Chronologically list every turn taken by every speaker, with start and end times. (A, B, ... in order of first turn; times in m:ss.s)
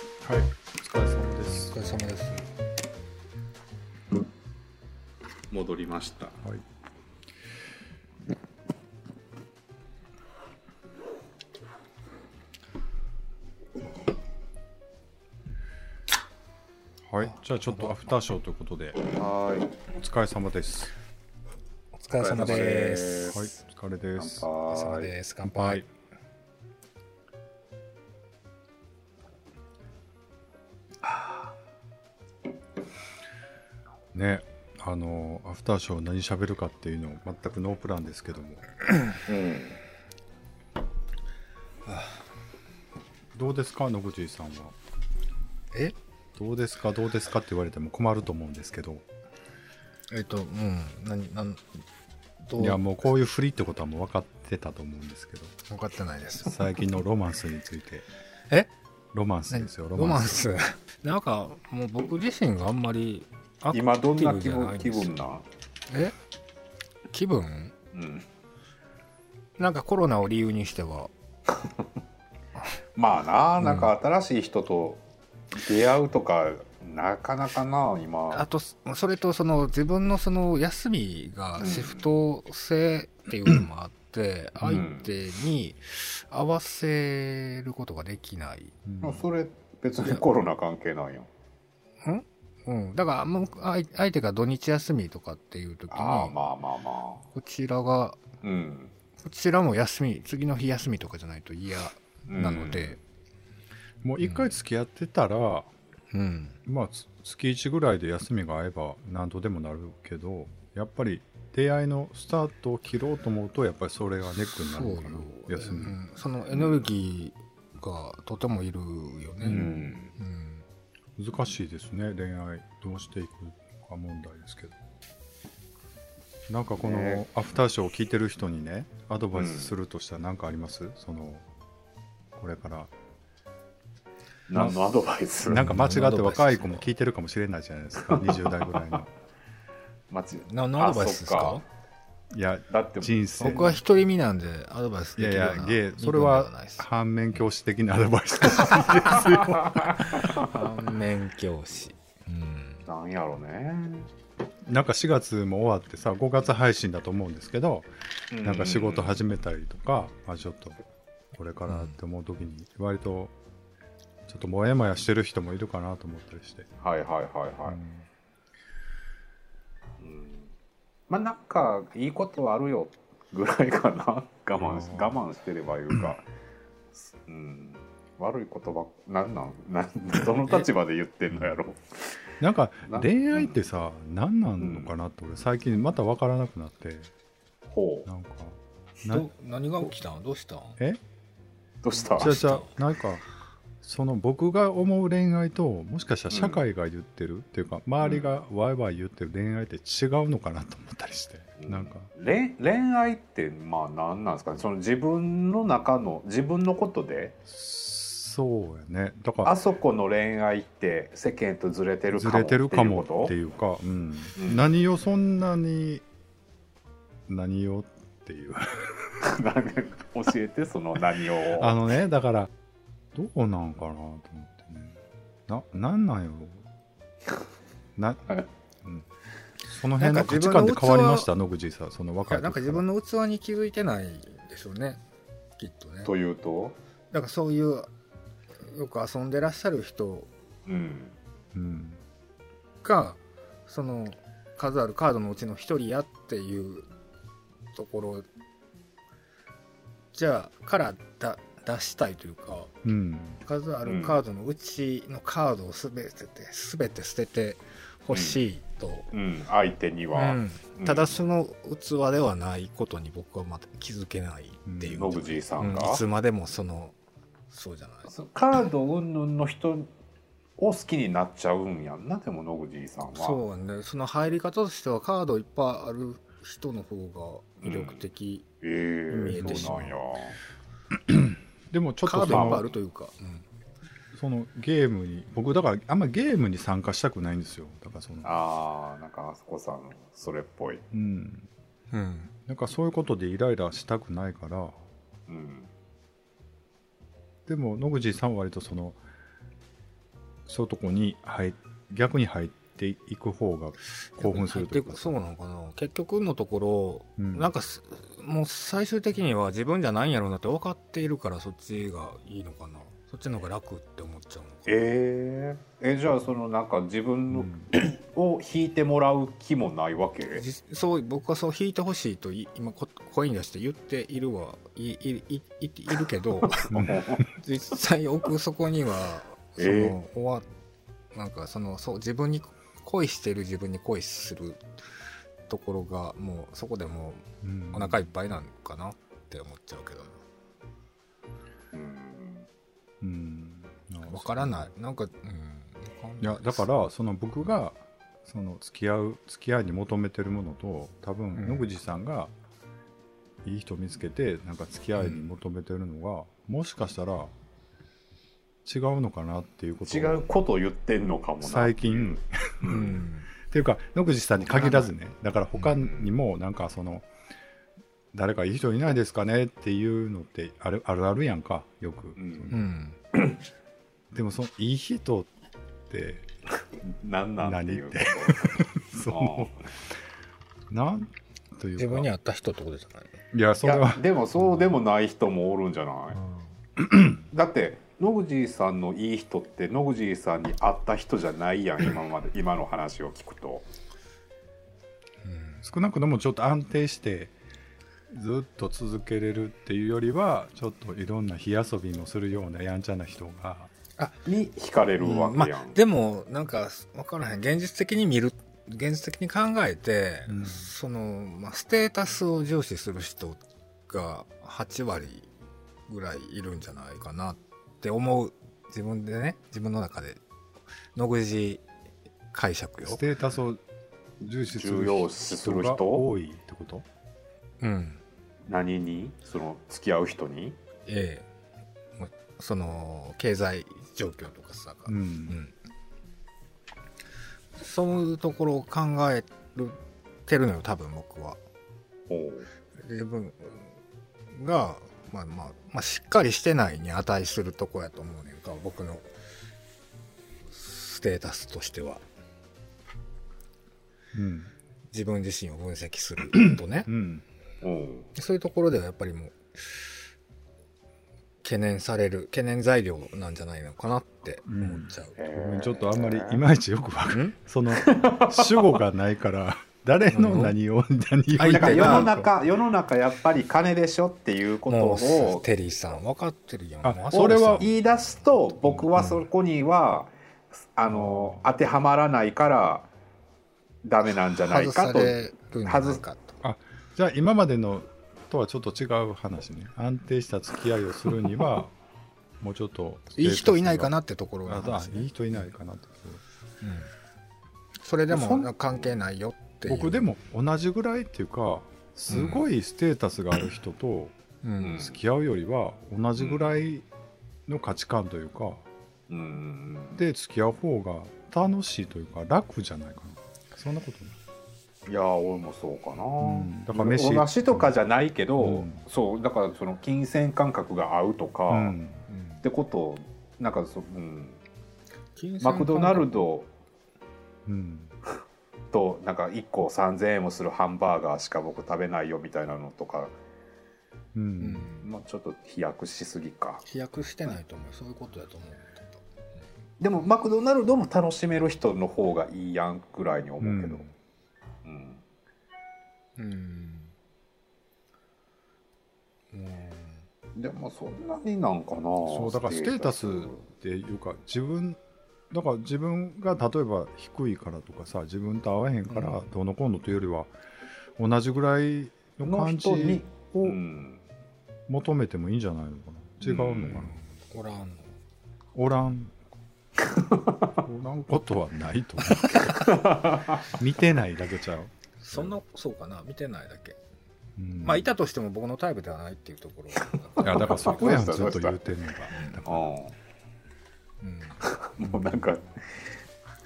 0:00.2-0:01.8 A
0:01.5-0:02.5 B
0:05.5-0:06.4 C
0:17.1-0:19.0 A
0:17.2-0:18.0 B
0:19.0-0:19.8 C
0:19.9-0:20.9 A
0:22.0-0:23.5 B
0:22.2-0:23.5 C
0:22.4-0:22.7 A
0:23.2-0:24.5 A
0:24.2-0:25.2 C
0:24.7-0:25.8 B
0:25.4-0:25.9 A
0:31.0-0:31.5 C
0:34.1-0:38.6 A
0:39.3-0:39.8 C
0:43.3-0:44.8 A
0:46.4-0:49.0 A
0:50.1-0:51.8 B
0:52.4-0:52.8 B
0:52.6-0:55.5 A
0:55.7-0:56.6 B
0:56.4-0:58.0 A
0:59.1-1:00.5 A
0:59.5-1:03.3 B
1:03.7-1:05.4 C
1:04.1-1:05.2 B
1:05.9-1:06.1 B
1:07.1-1:07.7 B
1:07.9-1:08.2 C
1:09.6-1:11.1 B
1:13.0-1:15.0 C
1:13.6-1:13.9 B
1:15.5-1:18.4 C
1:18.3-1:28.8 B
1:21.6-1:22.1 C
1:24.7-1:25.1 C
1:28.8-1:29.2 A
1:29.0-1:31.3 C
1:32.0-1:36.4 B
1:35.9-1:37.2 C
1:37.3-1:38.2 B
1:38.4-1:38.9 C
1:39.2-1:43.0 B
1:42.3-1:43.0 C
1:44.0-1:45.7 A
1:44.2-1:44.5 B
1:46.1-1:46.6 B
1:46.7-1:56.0 A
1:54.6-2:00.6 B
1:56.5-1:56.8 C
1:59.4-2:00.1 C
1:59.4-1:59.9 A
2:01.2-2:04.8 A
2:06.5-2:11.4 A
2:06.8-2:07.2 C
2:09.3-2:09.7 C
2:12.4-2:12.9 A
2:14.5-2:15.7 C
2:14.5-2:14.8 A
2:15.4-2:19.1 A
2:15.5-2:16.9 B
2:18.1-2:19.0 C
2:20.1-2:21.6 C
2:20.4-2:21.6 B
2:22.3-2:23.8 A
2:22.7-2:23.6 C
2:23.4-2:26.8 B
2:25.2-2:29.8 A
2:28.7-2:30.6 C
2:30.1-2:32.8 B
2:32.8-2:34.1 C
2:34.7-2:40.8 A
2:38.3-2:39.2 C
2:41.3-2:43.3 A
2:41.7-2:42.0 B
2:44.3-2:46.7 A
2:46.8-2:47.8 C
2:47.7-2:48.1 A
2:50.0-2:50.5 C
2:51.1-2:56.2 C
2:54.6-2:55.2 A
2:57.1-3:02.2 C
3:02.4-3:07.1 A
3:02.9-3:03.6 C
3:04.6-3:04.9 C
3:07.7-3:08.1 C
3:08.1-3:09.3 A
3:09.1-3:10.8 B
3:11.8-3:12.4 C
3:12.2-3:12.7 B
3:12.2-3:13.2 A
3:13.8-3:22.1 A
3:16.3-3:16.6 C
3:18.0-3:18.4 C
3:21.6-3:27.4 C
3:27.5-3:29.5 A
3:29.4-3:33.3 C
3:32.1-3:36.0 A
3:34.4-3:34.7 C
3:37.3-3:39.2 A
3:39.2-3:41.8 C
3:41.6-3:42.5 A
3:43.1-3:46.6 A
3:48.0-3:49.1 A
3:49.7-3:52.8 A
3:50.0-3:51.3 B
3:52.3-3:55.0 B
3:55.6-3:56.1 B
3:56.0-3:56.8 C
3:57.1-3:57.9 B
3:58.6-4:00.3 B
4:00.7-4:01.2 C
4:01.5-4:02.0 A
4:02.8-4:06.9 B
4:07.7-4:08.3 B
4:10.1-4:12.7 B
4:12.8-4:13.4 A
4:13.4-4:19.1 B
4:13.8-4:14.2 C
4:18.1-4:18.4 C
4:19.1-4:21.2 C
4:20.1-4:26.9 B
4:24.6-4:25.1 A
4:25.0-4:26.0 C
4:27.5-4:28.1 B
4:28.1-4:29.9 C
4:30.6-4:33.4 C
4:33.1-4:38.4 B
4:37.6-4:38.1 C
4:38.6-4:40.4 C
4:39.1-4:39.9 B
4:39.4-4:40.0 A
4:40.9-4:42.7 A
4:42.0-4:43.4 B
4:42.2-4:42.7 C
4:44.1-4:48.3 A
4:48.2-4:50.8 C
4:50.9-4:51.5 A
4:51.9-4:52.3 B
4:52.5-4:54.8 A
4:55.3-4:55.7 C
4:57.5-4:59.0 A
5:00.4-5:05.2 A
5:04.2-5:14.8 B
5:07.2-5:07.5 A
5:14.7-5:20.4 C
5:17.3-5:17.7 A
5:20.3-5:30.5 B
5:26.4-5:27.2 C
5:26.7-5:27.3 A
5:29.6-5:30.0 C
5:31.1-5:34.6 B
5:35.5-5:40.2 B
5:37.4-5:38.1 A
5:41.7-5:42.5 C
5:43.0-5:44.7 A
5:44.1-5:46.7 B
5:46.2-5:52.3 A
5:51.3-5:51.7 B
5:53.4-5:57.3 A
5:55.0-5:55.3 B
5:58.6-6:00.3 A
5:59.8-6:03.0 C
6:01.4-6:07.1 A
6:02.7-6:03.3 B
6:04.5-6:04.9 B
6:05.7-6:06.2 C
6:08.1-6:12.7 A
6:12.2-6:12.5 C
6:12.5-6:13.0 B
6:14.1-6:15.3 A
6:15.9-6:16.2 A
6:16.8-6:18.6 C
6:17.4-6:19.5 A
6:19.1-6:19.6 C
6:20.7-6:22.1 A
6:21.8-6:23.1 B
6:23.3-6:24.0 A
6:23.6-6:26.2 C
6:26.8-6:27.2 A
6:27.3-6:33.6 C
6:35.2-6:35.6 B
6:35.6-6:37.3 A
6:38.1-6:43.7 A
6:44.2-6:45.8 C
6:45.0-6:55.3 B
6:50.3-6:50.7 A
6:55.9-7:00.2 B
7:00.9-7:01.6 B
7:02.3-7:03.0 B
7:02.8-7:03.6 A
7:04.2-7:06.8 A
7:04.5-7:06.1 C
7:07.6-7:08.0 B
7:08.5-7:10.6 C
7:10.9-7:11.3 B
7:12.0-7:15.5 B
7:14.9-7:15.4 A
7:17.6-7:21.4 B
7:22.1-7:22.5 C
7:22.8-7:23.7 B
7:24.3-7:29.1 B
7:30.5-7:32.0 B
7:34.1-7:34.5 A
7:34.9-7:36.9 B
7:36.4-7:37.2 A
7:37.6-7:38.1 C
7:38.1-7:39.8 B
7:41.4-7:45.2 B
7:44.4-7:52.3 A
7:45.2-7:46.4 C
7:47.1-7:47.4 B
7:47.7-7:48.8 C
7:50.1-7:50.6 B
7:51.3-7:52.2 B
7:51.4-7:55.5 C
7:54.6-7:57.7 B
7:56.8-7:57.7 A
7:57.1-8:02.9 C
7:58.6-7:59.2 A
8:00.9-8:01.4 A
8:03.8-8:06.0 C
8:04.3-8:06.4 B
8:06.4-8:11.7 A
8:12.4-8:16.2 A
8:13.1-8:15.4 B
8:16.6-8:16.9 B
8:17.8-8:20.1 B
8:18.1-8:18.5 A
8:19.6-8:24.1 A
8:22.1-8:22.5 B
8:24.4-8:24.9 B
8:24.6-8:25.0 C
8:24.8-8:26.9 A
8:26.2-8:26.5 C
8:27.5-8:28.6 A
8:29.1-8:30.0 C
8:29.9-8:34.2 A
8:34.9-8:41.8 C
8:36.2-8:37.7 A
8:38.4-8:38.8 A
8:41.5-8:42.0 A
8:42.1-8:42.4 B
8:42.4-8:44.4 C
8:45.2-8:46.2 B
8:45.4-8:46.5 C
8:47.5-8:47.9 A
8:48.7-8:53.1 C
8:54.1-8:54.7 A
8:54.4-8:54.9 B
8:54.8-8:56.6 C
8:56.6-8:59.0 B
8:59.8-9:03.9 C
9:03.4-9:03.9 A
9:04.6-9:05.0 C
9:06.2-9:06.9 B
9:09.3-9:10.0 B
9:10.4-9:13.4 C
9:12.0-9:14.8 A
9:15.3-9:20.3 A
9:18.9-9:19.2 B
9:21.0-9:23.6 A
9:22.2-9:24.0 C
9:24.7-9:27.0 A
9:26.2-9:26.9 C
9:26.7-9:27.9 B
9:28.5-9:29.1 A
9:30.6-9:32.7 A
9:32.2-9:32.5 B
9:32.6-9:33.4 C
9:33.5-9:35.4 A
9:35.0-9:36.8 B
9:37.4-9:37.9 A
9:37.6-9:41.2 B
9:40.2-9:42.7 A
9:40.2-9:41.6 C
9:42.1-9:42.4 B
9:42.4-9:43.0 C
9:44.0-9:44.4 B
9:44.4-9:45.9 C
9:44.8-9:45.2 A